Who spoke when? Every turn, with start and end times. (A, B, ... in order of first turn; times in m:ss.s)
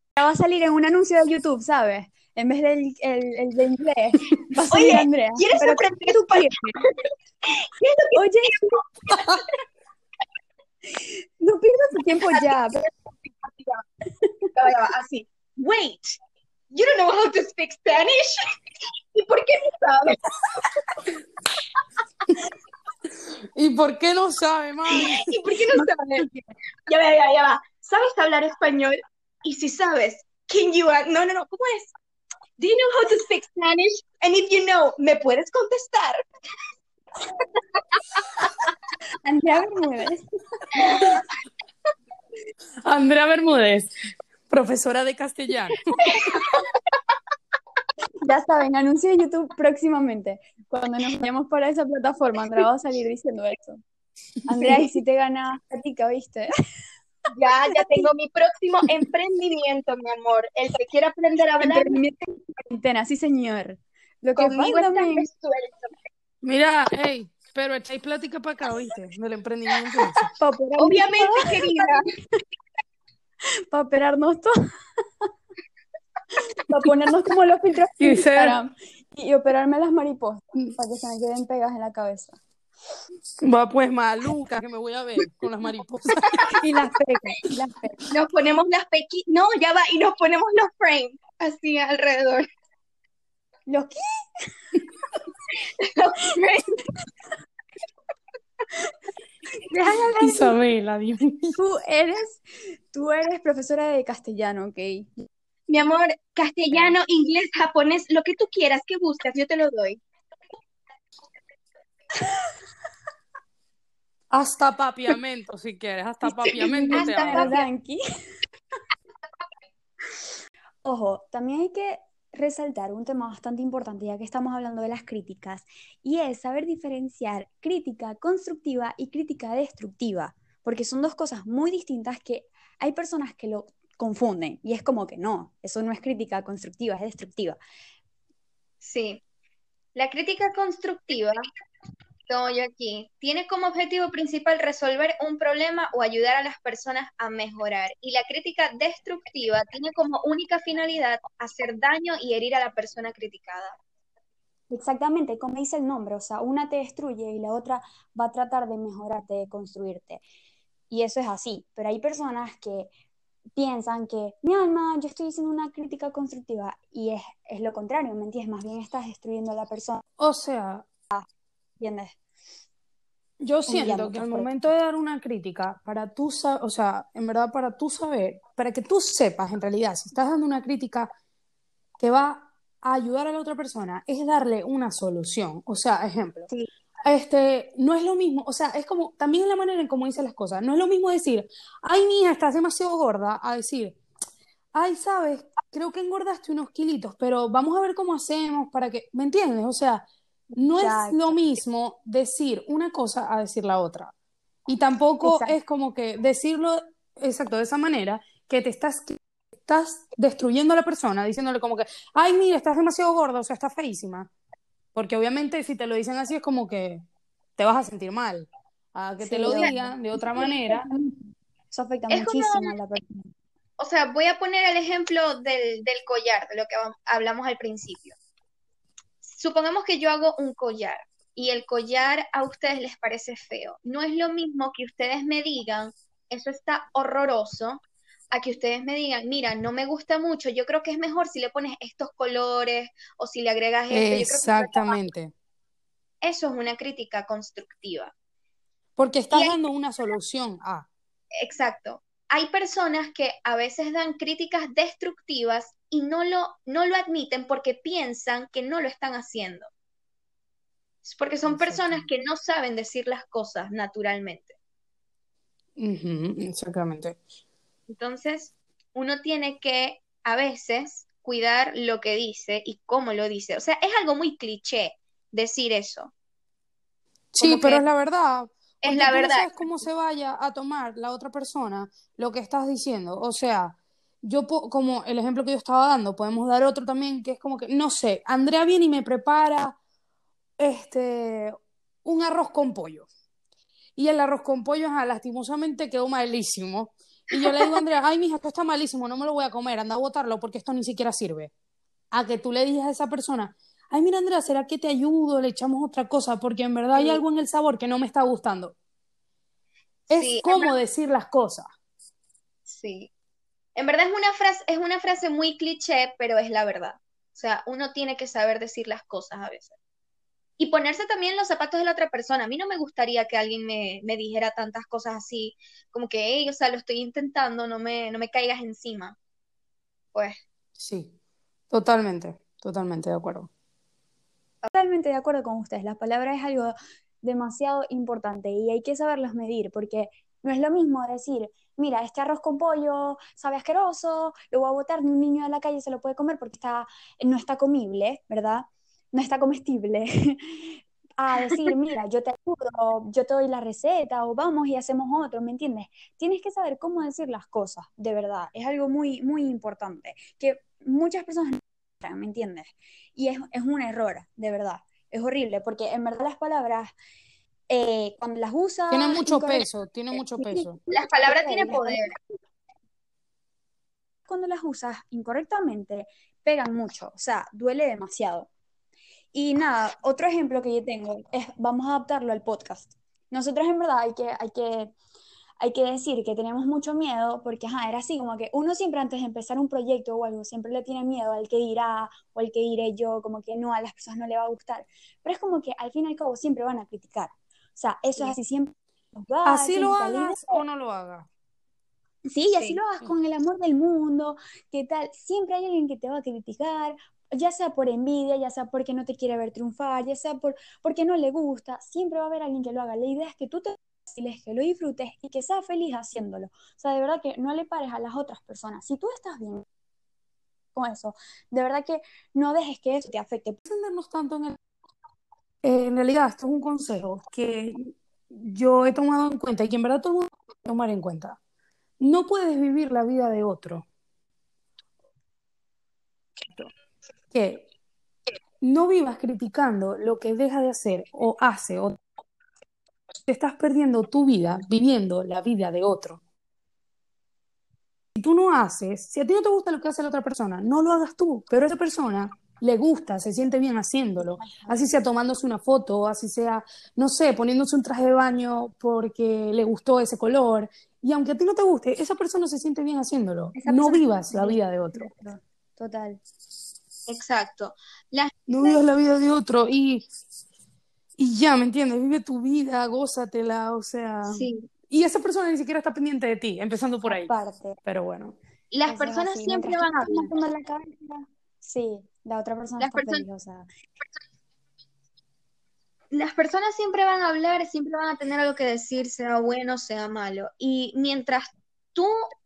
0:00.2-0:06.8 A
0:04.7-0:09.4 B
0:08.2-0:08.8 A
0:10.9-0:12.8 A
0:12.3-0:12.6 B
0:13.3-0:13.8 B
0:14.2-0:14.5 A
0:14.6-0:16.2 B
0:16.7-0:18.6 B
0:19.1-0:20.7 B
0:23.6-0:25.3 C
0:24.9-0:26.3 B
0:25.7-0:26.5 A
0:26.9-0:31.9 B
0:32.6-0:36.2 B
0:39.2-0:40.2 A
0:40.8-0:41.1 A
0:40.9-0:41.2 B
0:42.8-0:43.9 C
0:44.5-0:46.2 C
0:46.1-0:46.6 B
0:48.2-0:53.8 A
0:54.5-0:56.5 A
0:57.3-1:02.0 B
0:57.7-0:58.1 A
1:01.6-1:05.3 A
1:04.4-1:05.9 B
1:06.4-1:10.3 C
1:10.3-1:12.4 A
1:10.8-1:12.0 B
1:13.7-1:14.6 A
1:16.6-1:22.4 A
1:18.0-1:18.6 C
1:23.4-1:26.4 C
1:26.5-1:28.0 A
1:28.1-1:32.5 B
1:33.7-1:34.0 A
1:35.8-1:36.8 B
1:39.5-1:40.6 A
1:40.2-1:41.6 C
1:41.6-1:45.2 A
1:45.7-1:50.0 B
1:54.3-1:57.6 C
1:56.4-1:58.0 A
1:56.5-1:57.7 B
2:00.8-2:17.6 A
2:18.8-2:19.2 B
2:20.0-2:21.4 B
2:22.3-2:33.8 B
2:34.7-2:40.2 A
2:40.9-2:42.9 A
2:43.6-2:50.0 A
2:50.2-2:50.9 C
2:51.8-2:52.2 A
2:53.4-3:01.1 C
2:53.7-2:54.7 A
3:02.0-3:06.5 C
3:07.0-3:14.0 C
3:14.7-3:24.1 C
3:20.5-3:21.4 A
3:24.7-3:34.3 C
3:25.2-3:25.6 A
3:34.9-3:37.0 C
3:37.6-3:40.9 C
3:39.2-3:43.3 A
3:42.1-3:42.8 B
3:43.8-3:48.2 B
3:49.2-4:05.0 B
4:03.9-4:05.3 C
4:06.2-4:08.1 B
4:09.0-4:10.9 C
4:09.3-4:09.6 B
4:11.4-4:19.7 B
4:21.0-4:24.6 B
4:21.4-4:22.1 C
4:25.8-4:27.2 C
4:27.9-4:36.1 B
4:37.4-4:37.8 B
4:37.4-4:49.8 C
4:38.8-4:39.6 B
4:50.6-4:53.1 C
4:54.0-5:01.5 C
4:57.3-4:57.8 B
5:02.1-5:08.8 C
5:06.9-5:07.2 B
5:10.1-5:11.7 C
5:10.1-5:10.7 B
5:12.7-5:13.1 B
5:13.8-5:19.8 B
5:20.6-5:29.2 B
5:30.1-5:30.4 B
5:30.8-5:31.1 C
5:31.7-5:33.5 C
5:34.7-6:06.9 A
6:07.7-6:09.7 A
6:08.9-6:10.8 C
6:10.3-6:12.3 A
6:10.9-6:12.2 B
6:14.3-6:18.5 A
6:19.3-6:25.0 A
6:25.6-6:40.6 A
6:39.4-6:41.3 C
6:42.3-6:59.6 A
6:42.5-6:42.8 B
7:00.8-7:03.6 A
7:03.7-7:04.6 C
7:05.6-7:11.4 C
7:12.0-7:13.9 C
7:17.3-7:17.7 C
7:18.6-7:22.0 C
7:23.3-7:26.2 C
7:28.2-7:45.1 C
7:34.4-7:34.9 A
7:43.6-7:46.2 A
7:47.1-7:48.8 B
7:48.5-7:50.1 C
7:51.2-7:57.3 C
7:54.3-7:54.7 B
7:57.1-7:57.8 A
7:57.8-7:58.4 C
7:58.7-8:00.3 B
7:58.9-8:03.7 A
8:02.8-8:03.2 B
8:06.1-8:12.3 B